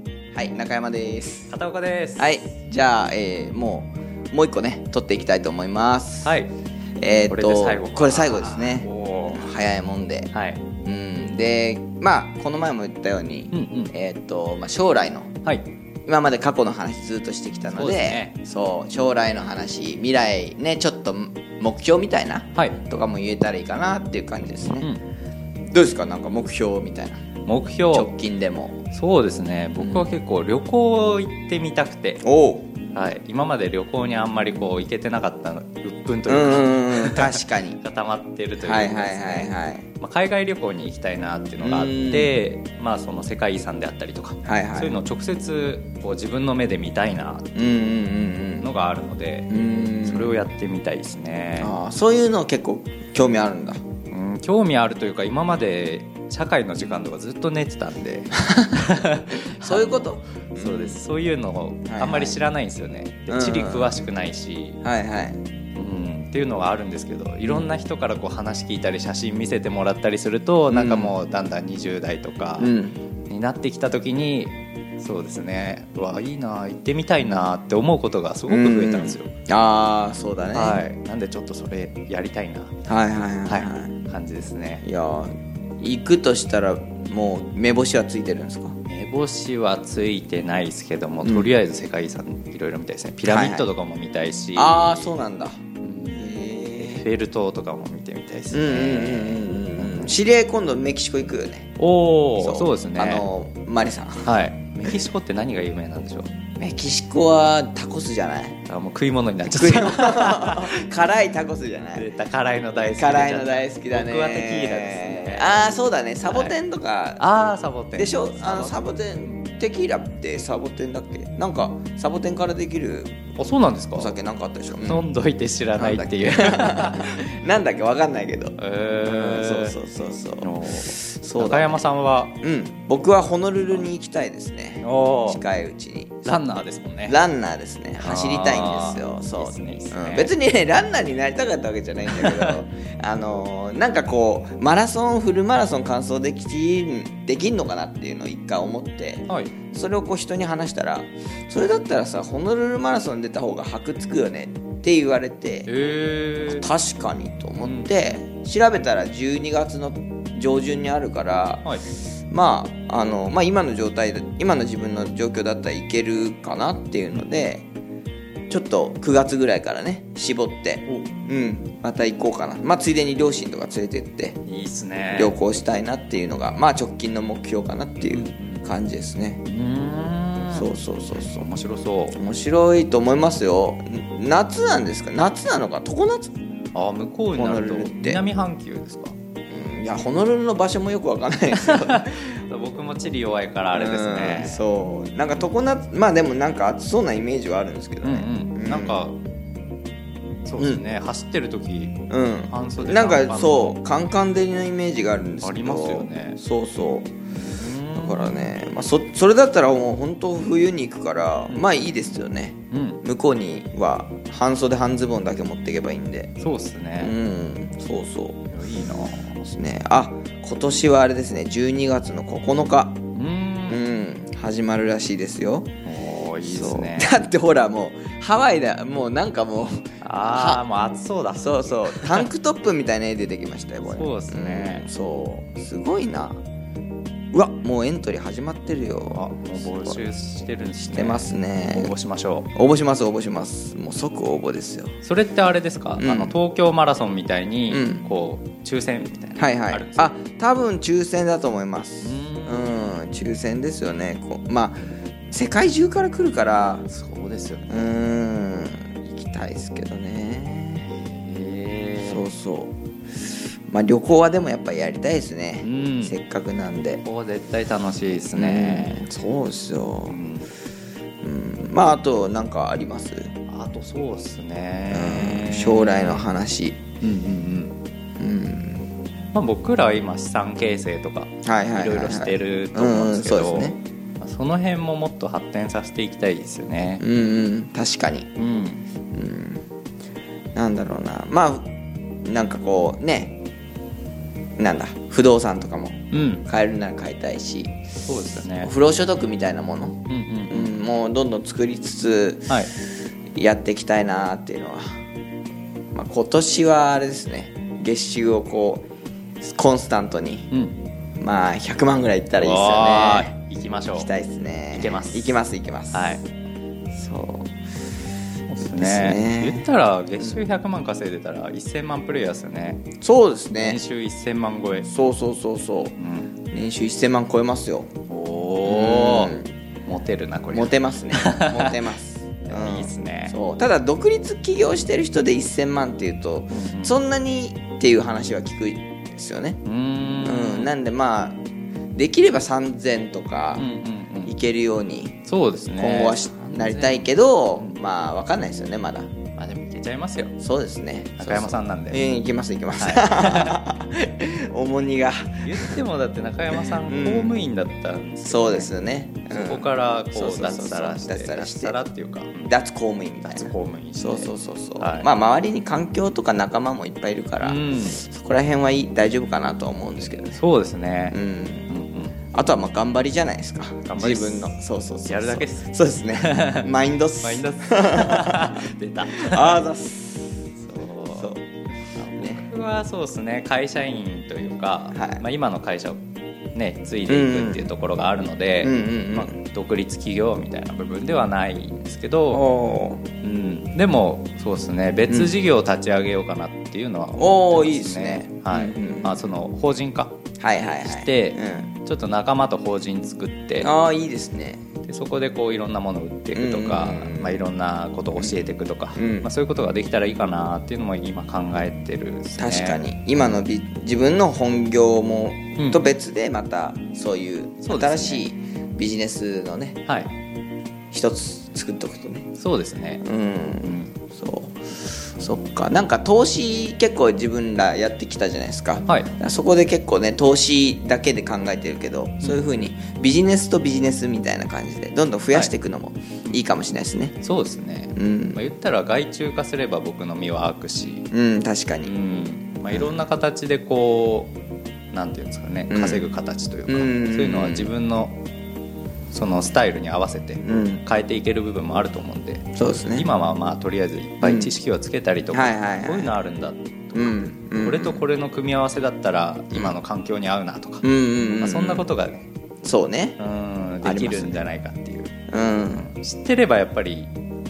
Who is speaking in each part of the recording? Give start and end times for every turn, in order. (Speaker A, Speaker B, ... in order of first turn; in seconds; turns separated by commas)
Speaker A: 0.3-1.5, Speaker B: 1.5-2.4, Speaker A: 2.2-6.4, Speaker B: 6.2-6.5, Speaker A: 7.0-10.3, Speaker B: 7.3-9.5, Speaker B: 10.3-10.6, Speaker A: 10.8-15.3, Speaker B: 13.5-13.9, Speaker A: 16.1-24.9, Speaker B: 17.7-18.3, Speaker A: 25.7-27.2, Speaker B: 27.4-28.1, Speaker A: 27.9-28.8, Speaker B: 28.9-32.2, Speaker A: 29.8-30.1, Speaker A: 32.2-32.7, Speaker B: 32.9-47.8, Speaker A: 36.3-37.8, Speaker A: 38.6-39.8, Speaker A: 41.6-42.3, Speaker A: 44.4-45.0, Speaker A: 47.5-48.7, Speaker B: 48.6-51.7, Speaker A: 49.5-50.4, Speaker A: 51.6-53.8, Speaker B: 54.1-64.8, Speaker A: 58.4-58.8, Speaker A: 59.6-61.0, Speaker A: 61.9-62.4, Speaker A: 63.3-64.0, Speaker A: 64.8-65.4, Speaker B: 65.8-72.7, Speaker A: 70.7-71.1, Speaker A: 72.6-73.0, Speaker B: 73.3-79.3, Speaker A: 78.5-80.8, Speaker B: 80.5-82.8, Speaker A: 82.8-84.0, Speaker B: 83.5-84.8, Speaker A: 84.8-88.8, Speaker B: 88.9-95.1, Speaker A: 91.2-91.5, Speaker A: 93.2-93.7, Speaker A: 94.5-95.6, Speaker B: 95.8-100.2, Speaker A: 96.1-97.0, Speaker A: 98.5-101.8, Speaker B: 101.8-103.3, Speaker A: 102.4-104.3, Speaker B: 104.2-106.3, Speaker A: 106.6-108.6, Speaker B: 108.7-110.7, Speaker A: 109.5-112.1, Speaker B: 111.9-116.6, Speaker A: 113.0-117.2, Speaker B: 117.2-118.9, Speaker A: 117.9-123.2, Speaker B: 123.4-124.2, Speaker A: 123.9-125.1, Speaker B: 124.7-127.1, Speaker A: 125.7-131.8, Speaker B: 128.6-129.7, Speaker B: 130.4-132.3, Speaker A: 132.4-136.4, Speaker B: 134.8-135.4, Speaker B: 136.2-137.2, Speaker A: 137.1-155.7, Speaker B: 138.0-140.3, Speaker B: 142.1-142.5, Speaker B: 149.3-149.5, Speaker B: 155.7-156.7, Speaker A: 156.4-161.7, Speaker B: 157.6-158.0, Speaker A: 162.3-167.7, Speaker A: 168.5-174.4, Speaker B: 174.4-175.4, Speaker A: 175.1-179.4, Speaker B: 178.1-178.7, Speaker B: 179.4-182.2, Speaker A: 180.5-181.5, Speaker A: 182.1-186.3, Speaker B: 186.7-189.1, Speaker A: 187.3-188.2, Speaker A: 189.5-192.4, Speaker B: 191.5-194.6, Speaker A: 193.7-199.0, Speaker B: 198.0-199.2, Speaker B: 200.4-203.8, Speaker A: 200.6-200.8, Speaker A: 202.1-207.1, Speaker B: 205.4-206.4, Speaker B: 207.3-208.6, Speaker A: 207.9-216.3, Speaker B: 211.5-211.8, Speaker B: 212.7-213.0, Speaker B: 216.4-217.1, Speaker A: 217.0-218.5, Speaker B: 218.5-219.4, Speaker A: 219.4-223.0, Speaker B: 223.1-223.8, Speaker A: 223.7-225.7, Speaker B: 225.8-227.2, Speaker A: 226.4-230.6, Speaker B: 230.0-232.3, Speaker A: 231.3-236.4, Speaker B: 233.8-234.8, Speaker A: 237.3-240.0, Speaker B: 239.1-242.5, Speaker A: 240.9-241.9, Speaker A: 242.5-244.9, Speaker B: 245.0-250.1, Speaker A: 246.0-246.3, Speaker A: 247.7-248.0, Speaker A: 249.4-256.9, Speaker B: 252.0-252.8, Speaker B: 256.9-257.9, Speaker A: 257.7-260.9, Speaker B: 260.9-262.3, Speaker A: 262.0-262.7, Speaker A: 263.7-267.0, Speaker B: 265.6-266.1, Speaker B: 267.0-269.1, Speaker A: 268.3-270.2, Speaker B: 270.1-270.5, Speaker A: 271.2-273.3, Speaker B: 273.5-276.2, Speaker A: 274.9-276.8, Speaker B: 277.0-277.8, Speaker A: 278.2-278.8, Speaker B: 279.3-287.0, Speaker A: 281.4-283.8, Speaker A: 287.0-288.3, Speaker B: 288.4-288.8, Speaker A: 289.1-289.6, Speaker A: 290.5-291.7, Speaker A: 292.2-293.4, Speaker A: 294.6-302.7, Speaker B: 296.1-296.4, Speaker B: 298.0-298.7, Speaker B: 300.1-300.8, Speaker A: 303.3-305.0, Speaker A: 305.9-308.8, Speaker A: 309.4-310.5, Speaker B: 310.5-310.8, Speaker A: 311.2-313.3, Speaker B: 312.4-314.1, Speaker A: 313.9-316.2, Speaker B: 314.7-315.4, Speaker B: 315.9-316.2, Speaker A: 316.9-317.5, Speaker B: 318.5-322.9, Speaker A: 318.6-319.7, Speaker A: 323.0-323.8, Speaker B: 323.6-324.9, Speaker A: 324.8-325.9, Speaker B: 326.0-326.3, Speaker A: 326.5-327.9, Speaker B: 328.1-331.8, Speaker A: 328.6-329.5, Speaker A: 330.5-339.6, Speaker B: 332.5-333.3, Speaker B: 336.5-337.0, Speaker B: 339.6-340.8, Speaker A: 340.2-341.4, Speaker A: 341.9-343.7, Speaker B: 343.6-344.3, Speaker A: 344.2-345.2, Speaker B: 345.2-347.8, Speaker A: 345.8-349.1, Speaker B: 349.4-350.3, Speaker A: 350.4-355.8, Speaker B: 351.2-352.0, Speaker B: 352.8-353.6, Speaker B: 355.4-362.5, Speaker A: 356.6-357.4, Speaker A: 358.2-361.8, Speaker A: 362.5-370.4, Speaker B: 363.2-365.1, Speaker B: 367.4-368.0, Speaker B: 370.3-371.2, Speaker A: 371.1-371.7, Speaker B: 371.7-372.2, Speaker A: 372.3-380.2, Speaker B: 373.8-374.5, Speaker B: 375.1-376.7, Speaker B: 377.2-379.6, Speaker B: 380.6-381.3, Speaker A: 381.1-381.4, Speaker B: 381.9-386.0, Speaker A: 382.1-382.5, Speaker A: 384.9-385.2, Speaker B: 386.5-392.4, Speaker A: 387.1-387.7, Speaker A: 388.6-389.3, Speaker A: 392.3-393.0, Speaker B: 393.2-400.1, Speaker A: 397.2-399.2, Speaker A: 400.4-401.7, Speaker B: 400.8-403.7, Speaker A: 403.6-404.6, Speaker B: 404.9-412.8, Speaker A: 406.3-407.4, Speaker A: 408.2-408.4, Speaker A: 408.9-409.3, Speaker A: 412.4-419.8, Speaker B: 415.6-415.9, Speaker B: 417.6-418.2, Speaker B: 419.9-420.1, Speaker A: 420.9-422.3, Speaker B: 422.4-423.0, Speaker A: 423.0-437.2, Speaker B: 423.6-423.9, Speaker B: 428.9-429.1, Speaker B: 437.2-441.1, Speaker A: 437.9-438.4, Speaker A: 441.1-441.9, Speaker B: 441.8-444.3, Speaker A: 442.7-443.0, Speaker B: 444.9-448.2, Speaker A: 445.7-446.0, Speaker A: 446.7-447.7, Speaker B: 449.1-460.8, Speaker A: 450.4-450.8, Speaker A: 452.5-453.1, Speaker A: 454.2-454.5, Speaker A: 455.3-456.1, Speaker A: 456.9-458.0, Speaker A: 460.8-461.9, Speaker B: 461.4-462.3, Speaker A: 462.6-463.2, Speaker B: 463.2-465.1, Speaker A: 463.8-464.4, Speaker A: 465.3-465.9, Speaker B: 465.8-467.1